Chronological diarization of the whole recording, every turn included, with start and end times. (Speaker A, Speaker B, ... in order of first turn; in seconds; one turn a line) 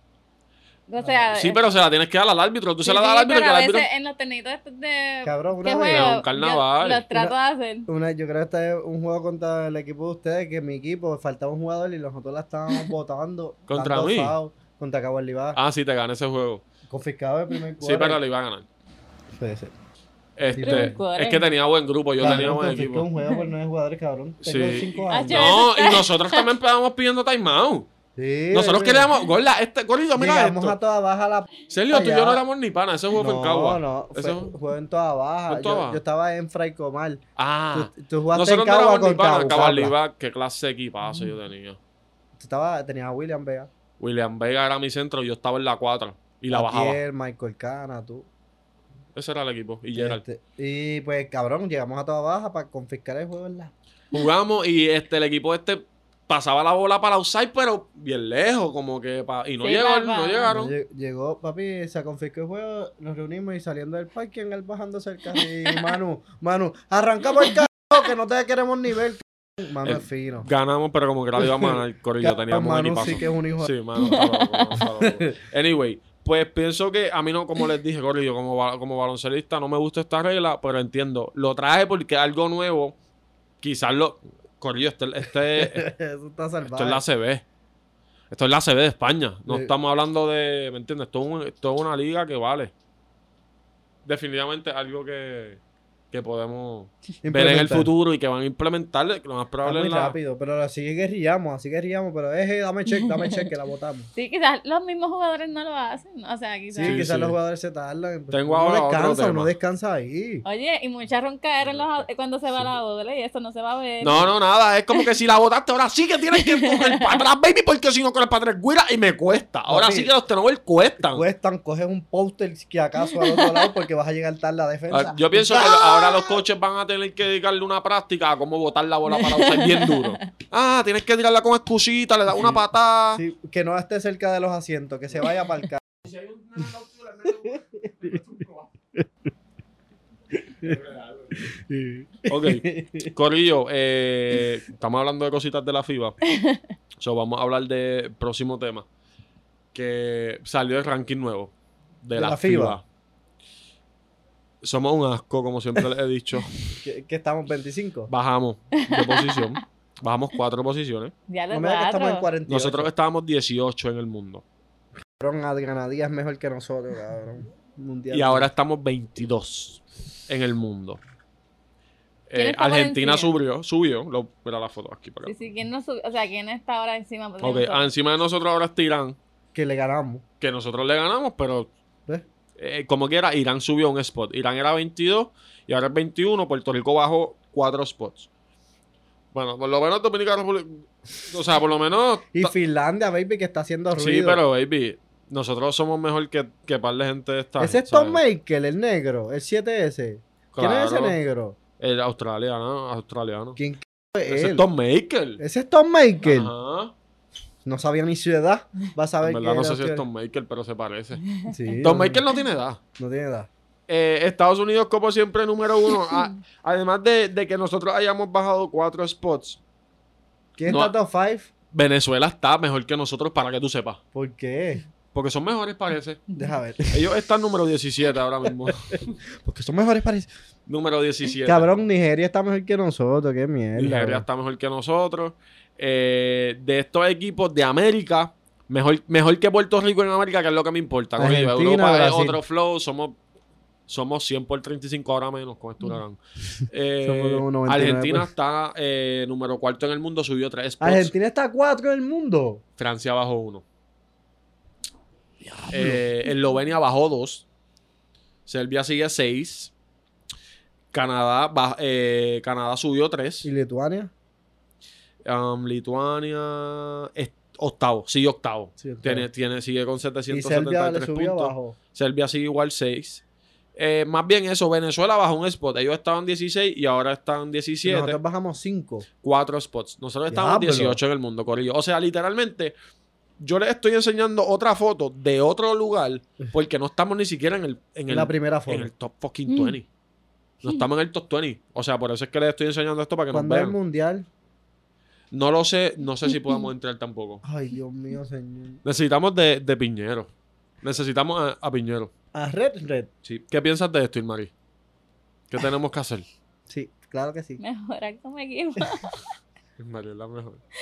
Speaker A: 0.9-1.6
Speaker B: 1.3-3.9
Speaker A: 2.8-7.9
Speaker C: 5.2-6.2
Speaker B: 5.9-7.0
Speaker C: 7.9-15.6
Speaker B: 13.7-14.3
Speaker B: 15.5-16.6
Speaker C: 16.9-18.2
Speaker B: 17.8-18.6
Speaker C: 19.3-19.7
Speaker B: 20.4-23.1
Speaker C: 20.5-20.9
Speaker A: 20.6-21.4
Speaker C: 22.2-25.5
Speaker B: 24.4-27.9
Speaker A: 25.1-26.4
Speaker C: 28.1-29.1
Speaker B: 28.5-30.8
Speaker C: 30.1-32.4
Speaker B: 31.7-34.5
Speaker C: 33.1-37.2
Speaker B: 35.5-36.0
Speaker B: 37.4-41.8
Speaker C: 37.7-39.9
Speaker C: 42.4-43.7
Speaker B: 44.0-47.0
Speaker C: 46.5-48.3
Speaker B: 49.1-50.2
Speaker C: 49.9-53.7
Speaker B: 54.1-60.7
Speaker A: 59.6-60.5
Speaker C: 60.5-70.5
Speaker B: 69.8-83.0
Speaker C: 71.4-73.7
Speaker A: 74.0-74.8
Speaker C: 74.8-75.3
Speaker B: 83.6-85.9
Speaker C: 85.5-87.0
Speaker B: 86.7-87.4
Speaker B: 88.3-92.7
Speaker B: 94.0-95.6
Speaker B: 96.1-100.2
Speaker C: 97.2-97.9
Speaker C: 99.6-104.1
Speaker A: 103.0-103.3
Speaker A: 104.1-107.0
Speaker C: 106.7-110.4
Speaker B: 106.8-107.3
Speaker B: 108.3-109.5
Speaker A: 110.4-114.3
Speaker B: 111.6-112.0
Speaker B: 114.0-121.2
Speaker A: 116.4-117.0
Speaker C: 119.7-120.1
Speaker C: 121.1-125.9
Speaker A: 123.2-123.6
Speaker B: 124.9-133.2
Speaker A: 129.1-130.2
Speaker C: 133.1-135.8
Speaker B: 136.0-138.7
Speaker B: 140.6-141.5
Speaker C: 141.4-143.1
Speaker B: 142.3-146.2
Speaker B: 147.0-148.8
Speaker B: 149.7-152.8
Speaker C: 152.1-152.8
Speaker B: 154.6-156.6
Speaker C: 156.8-158.1
Speaker B: 158.1-161.1
Speaker A: 158.8-159.5
Speaker A: 161.3-162.3
Speaker C: 161.5-162.9
Speaker B: 162.5-164.4
Speaker C: 165.2-168.5
Speaker B: 168.1-171.0
Speaker B: 172.3-175.3
Speaker A: 172.3-173.3
Speaker A: 175.2-177.9
Speaker B: 177.4-179.2
Speaker C: 179.5-180.2
Speaker B: 180.4-181.7
Speaker B: 182.6-188.3
Speaker B: 189.3-192.5
Speaker C: 192.3-194.4
Speaker B: 193.9-198.2
Speaker C: 197.6-201.6
Speaker B: 200.5-201.2
Speaker B: 201.8-203.6
Speaker C: 203.6-204.6
Speaker B: 204.3-205.4
Speaker C: 205.4-206.5
Speaker B: 206.2-206.9
Speaker C: 207.6-210.0
Speaker B: 209.2-211.2
Speaker C: 211.5-212.2
Speaker B: 211.8-212.8
Speaker C: 213.0-213.5
Speaker B: 213.9-219.6
Speaker C: 220.6-221.5
Speaker B: 220.7-220.9
Speaker B: 221.7-224.0
Speaker C: 224.1-224.8
Speaker B: 225.1-226.2
Speaker C: 226.4-227.1
Speaker B: 226.9-229.2
Speaker C: 228.4-230.3
Speaker B: 230.7-231.7
Speaker C: 231.4-234.2
Speaker B: 233.8-243.2
Speaker C: 241.2-242.4
Speaker B: 243.9-251.1
Speaker C: 247.0-248.3
Speaker C: 250.8-252.6
Speaker B: 252.8-253.6
Speaker C: 255.4-256.0
Speaker B: 255.7-257.4
Speaker B: 258.4-259.7
Speaker B: 260.9-263.5
Speaker C: 263.4-264.1
Speaker B: 265.2-273.2
Speaker C: 268.8-269.3
Speaker C: 270.3-271.8
Speaker B: 273.8-278.2
Speaker C: 277.8-279.1
Speaker B: 279.2-282.7
Speaker C: 280.3-281.0
Speaker B: 283.4-289.9
Speaker C: 288.1-288.9
Speaker A: 289.5-289.8
Speaker B: 290.6-293.7
Speaker C: 293.3-294.3
Speaker B: 295.3-297.4
Speaker C: 297.4-298.8
Speaker B: 298.8-300.3
Speaker B: 300.8-302.1
Speaker C: 302.3-303.1
Speaker B: 303.2-304.5
Speaker B: 305.5-306.2
Speaker C: 306.7-307.6
Speaker A: 307.6-309.2
Speaker B: 309.8-310.6